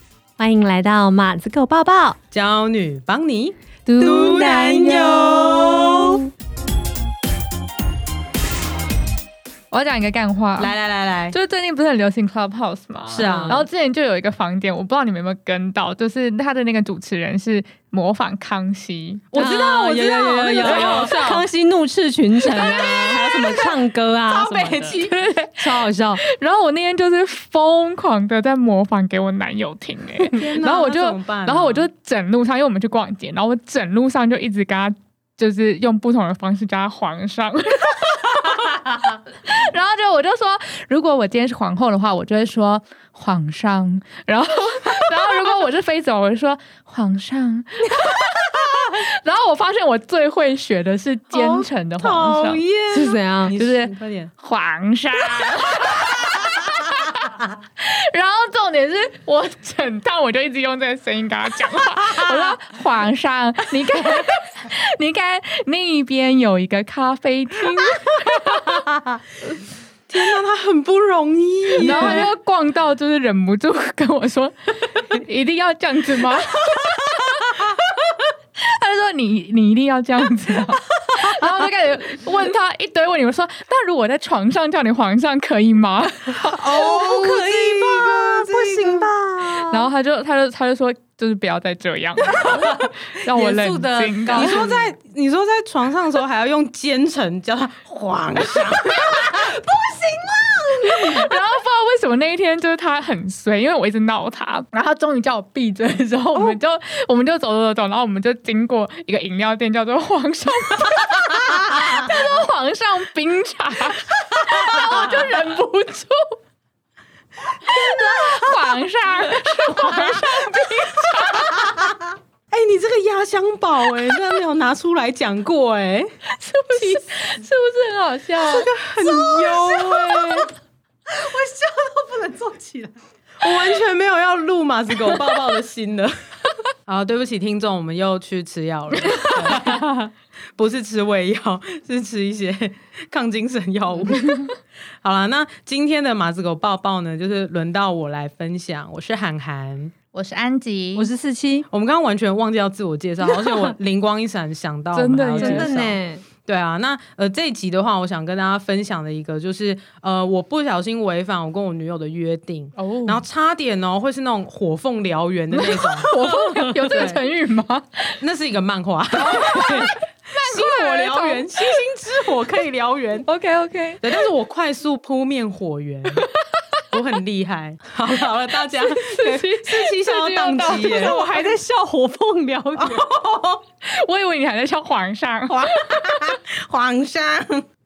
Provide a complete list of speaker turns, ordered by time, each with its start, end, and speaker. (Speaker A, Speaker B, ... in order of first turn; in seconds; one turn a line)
Speaker A: 0.4-2.2
Speaker B: 2.3-6.2
Speaker A: 3.9-6.2
Speaker C: 9.7-10.8
Speaker B: 10.6-11.4
Speaker C: 11.3-19.4
Speaker B: 13.1-13.7
Speaker A: 13.2-13.6
Speaker B: 19.3-21.5
Speaker A: 19.3-25.0
Speaker C: 20.6-21.4
Speaker C: 22.5-23.8
Speaker B: 24.3-25.1
Speaker C: 24.8-38.9
Speaker A: 25.6-26.2
Speaker B: 30.2-31.9
Speaker C: 39.4-52.6
Speaker B: 51.3-54.3
Speaker A: 52.9-53.5
Speaker C: 53.6-68.8
Speaker B: 62.1-62.5
Speaker B: 68.6-68.9
Speaker B: 70.1-72.3
Speaker C: 71.8-77.9
Speaker C: 78.6-86.8
Speaker B: 86.5-89.1
Speaker A: 86.7-89.9
Speaker C: 89.7-94.7
Speaker A: 92.3-94.9
Speaker B: 94.3-99.5
Speaker A: 99.2-101.0
Speaker C: 100.9-116.3
Speaker B: 114.7-115.3
Speaker C: 117.6-121.9
Speaker B: 117.8-118.5
Speaker B: 119.8-120.2
Speaker B: 121.3-121.6
Speaker B: 122.5-126.1
Speaker C: 126.3-130.4
Speaker B: 126.7-127.0
Speaker B: 128.4-130.5
Speaker A: 131.2-132.7
Speaker B: 132.4-132.7
Speaker B: 133.4-136.1
Speaker B: 136.9-144.5
Speaker C: 139.3-139.6
Speaker B: 145.0-149.9
Speaker C: 150.1-151.1
Speaker A: 151.0-151.7
Speaker B: 151.7-166.2
Speaker A: 153.4-153.7
Speaker C: 154.9-155.8
Speaker A: 155.4-156.2
Speaker C: 162.8-163.2
Speaker C: 165.5-168.2
Speaker B: 166.8-167.2
Speaker B: 168.2-173.3
Speaker C: 169.1-171.8
Speaker C: 173.2-174.1
Speaker B: 174.0-176.2
Speaker B: 176.9-181.2
Speaker C: 178.7-181.6
Speaker A: 180.7-183.1
Speaker B: 182.8-183.6
Speaker C: 183.8-186.3
Speaker B: 185.5-187.6